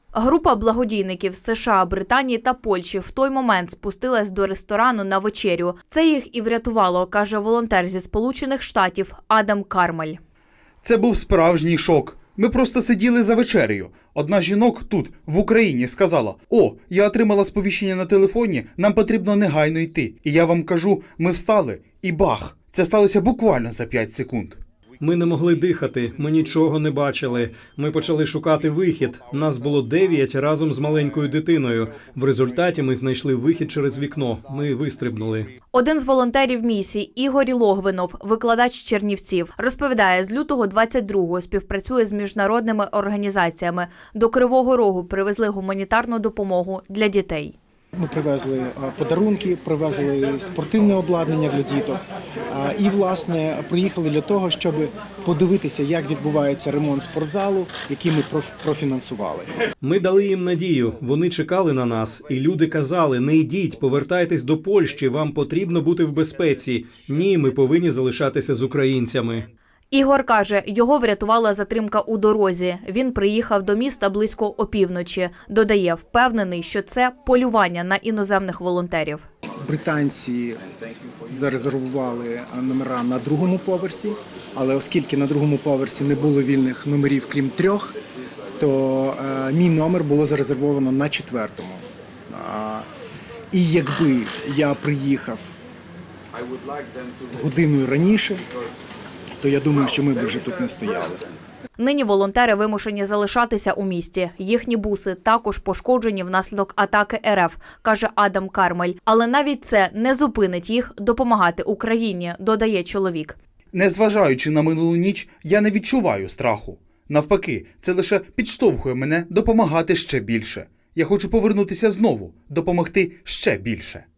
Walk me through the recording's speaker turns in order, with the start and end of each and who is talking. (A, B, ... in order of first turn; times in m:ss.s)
0:00.2-0:10.2 A
0:10.8-0:24.6 B
0:25.0-0:35.5 C
0:35.7-0:47.6 A
0:48.0-0:59.5 D
0:59.8-1:09.4 C
1:09.9-1:19.2 A
1:19.6-1:20.6 D
1:21.2-1:28.0 D
1:28.6-1:32.9 D
1:33.5-1:35.4 D
1:37.3-1:38.4 D
1:39.4-1:41.2 D
1:41.8-1:53.4 A
1:53.7-2:04.0 B